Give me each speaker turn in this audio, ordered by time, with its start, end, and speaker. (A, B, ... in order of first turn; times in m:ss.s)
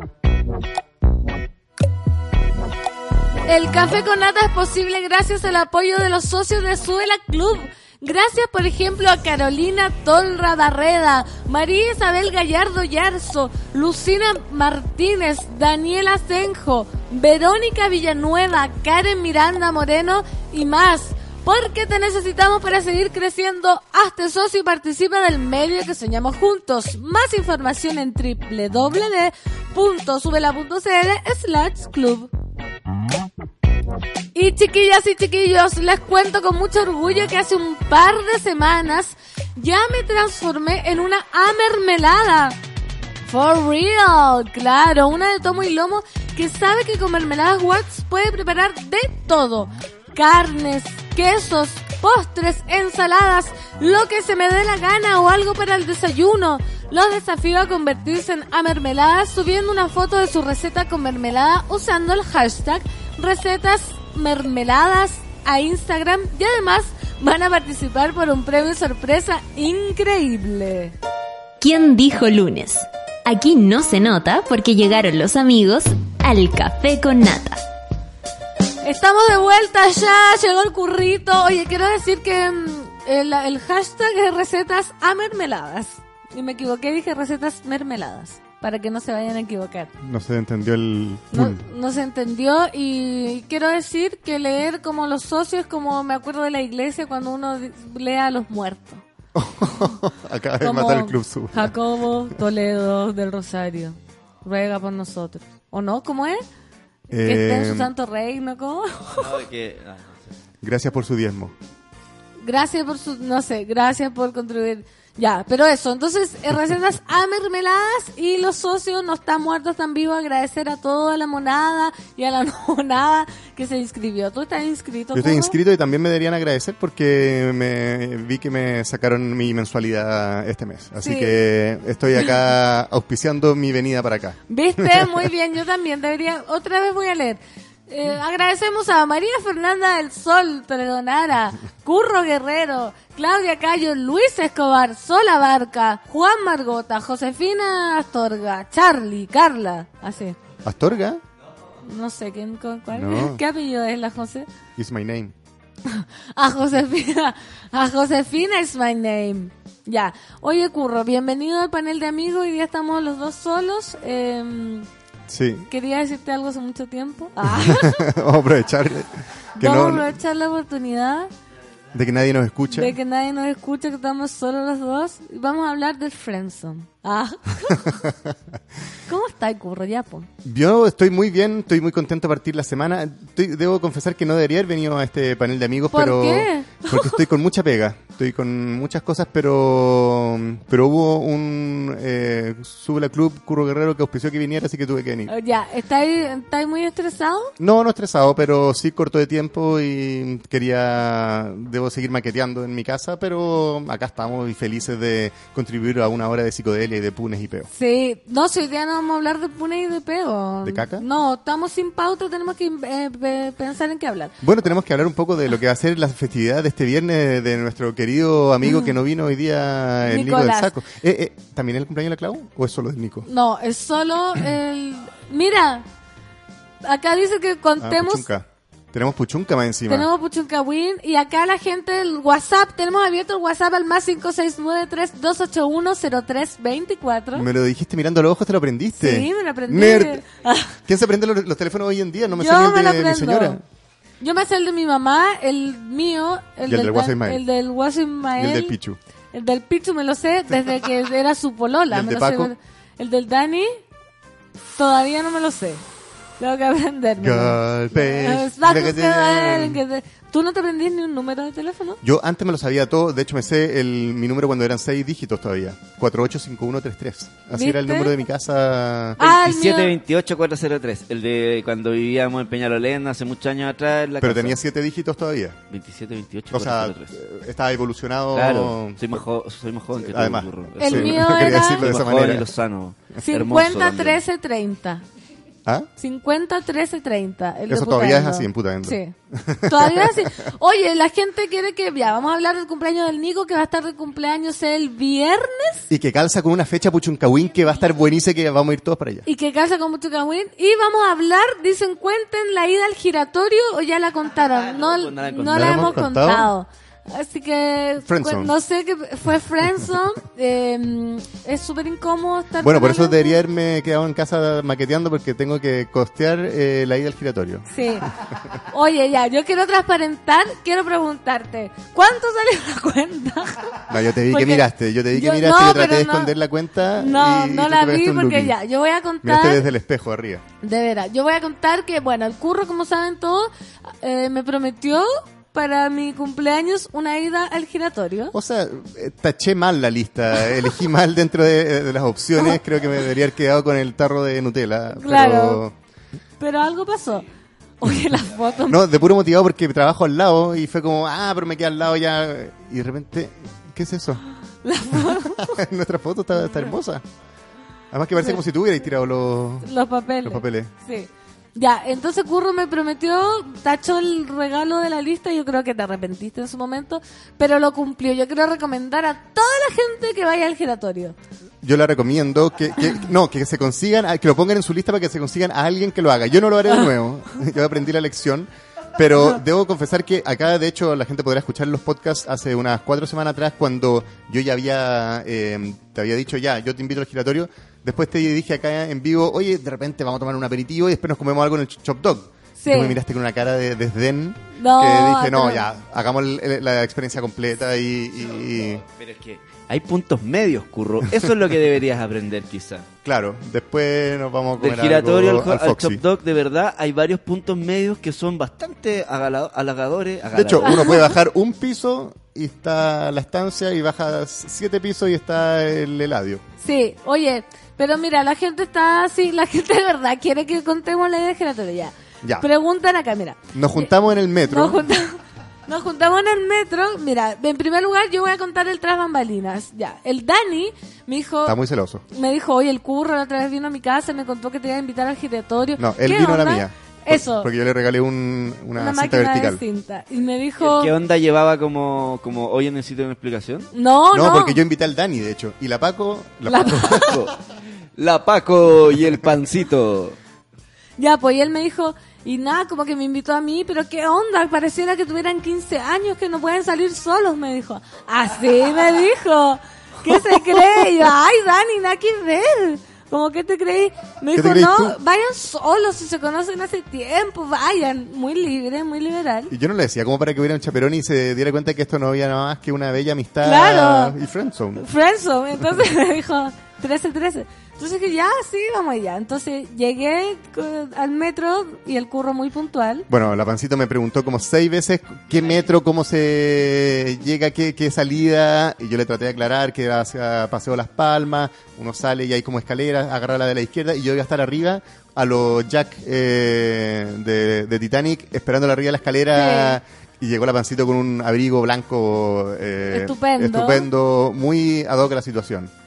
0:03.5-0:32.3 A
0:34.3-0:42.6 A
0:43.3-1:11.0 A
1:11.6-1:17.6 B
1:18.8-1:29.9 A
1:30.0-1:31.6 C
1:31.3-1:39.0 A
1:39.4-1:41.7 C
1:40.6-1:46.4 A
1:47.1-1:47.9 C
1:47.1-1:49.4 A
1:49.1-1:50.2 D
1:50.6-1:51.5 C
1:52.4-2:05.6 A
2:05.1-2:15.0 C
2:11.0-2:11.4 A
2:14.5-2:30.4 A
2:30.6-2:31.2 C
2:31.8-2:34.5 A
2:32.9-2:33.4 C
2:34.8-2:35.3 C
2:35.9-2:44.9 A
2:45.3-2:45.7 C
2:45.7-2:48.0 A
2:47.5-2:50.1 C
2:49.6-2:51.3 A
2:51.9-2:52.9 C
2:52.7-2:58.0 A
2:58.0-2:58.3 C
2:59.1-3:00.3 A
3:00.4-3:15.3 C
3:05.9-3:07.2 A
3:15.3-3:17.5 A
3:17.6-3:27.7 C
3:27.7-3:34.3 A
3:30.6-3:31.0 C
3:34.4-3:43.3 C
3:38.6-3:38.9 A
3:40.1-3:40.7 A
3:43.3-3:45.9 A
3:46.8-3:48.3 A
3:47.8-3:50.1 C
3:49.9-3:57.5 A
3:57.4-4:00.2 C
3:59.0-4:00.8 A
4:00.9-4:03.6 C
4:02.4-4:03.6 A
4:04.2-4:08.8 A
4:06.7-4:07.4 C
4:08.4-4:09.0 C
4:09.3-4:13.7 A
4:11.9-4:12.5 C
4:14.8-4:15.8 A
4:16.4-4:22.0 A
4:17.2-4:19.8 C
4:22.0-4:29.2 C
4:27.5-4:28.2 A
4:29.2-4:30.0 A
4:29.2-4:34.6 D
4:34.2-4:35.6 C
4:35.7-4:37.1 D
4:36.5-4:39.2 C
4:38.3-4:44.2 D
4:40.0-4:42.5 C
4:40.8-4:41.8 A
4:43.2-4:45.0 A
4:46.0-4:49.1 A
4:47.7-4:50.3 C
4:49.7-4:55.9 A
4:55.9-4:59.3 C
4:59.3-5:13.4 A
5:04.3-5:06.0 D
5:05.4-5:06.5 C
5:08.1-5:08.5 C
5:12.6-5:17.7 C
5:17.7-5:18.1 A
5:18.7-5:26.4 A
5:23.9-5:28.5 C
5:27.0-5:29.7 A
5:29.2-5:30.4 C
5:30.6-5:38.3 A
5:38.3-5:45.7 C
5:44.9-5:45.6 A
5:46.4-5:47.2 A
5:47.8-5:48.8 A
5:48.7-5:54.2 C
5:54.6-5:55.6 A
5:55.4-5:57.0 C
5:57.9-5:59.7 C
5:58.2-5:58.4 A
5:59.6-6:11.2 A
6:00.2-6:00.7 C
6:11.6-6:38.8 C
6:32.6-6:33.0 A
6:34.6-6:35.7 A
6:38.2-6:42.9 D
6:43.0-6:46.0 C
6:44.6-6:50.9 D
6:50.3-6:56.4 C
6:50.6-6:51.1 A
6:56.6-7:03.9 A
7:03.5-7:04.8 C
7:04.4-7:11.6 A
7:11.5-7:12.0 C
7:12.1-7:17.5 A
7:15.8-7:19.6 C
7:18.8-7:20.9 A
7:20.6-7:23.7 D
7:23.7-7:24.6 A
7:24.1-7:27.2 C
7:26.4-7:27.2 A
7:27.0-7:27.4 D
7:28.0-7:30.2 D
7:31.0-7:49.5 A
7:44.3-7:45.0 C
7:49.5-7:54.8 C
7:53.4-7:54.2 A
7:54.8-8:03.1 A
8:03.1-8:25.7 C
8:19.3-8:19.8 A
8:22.9-8:23.9 A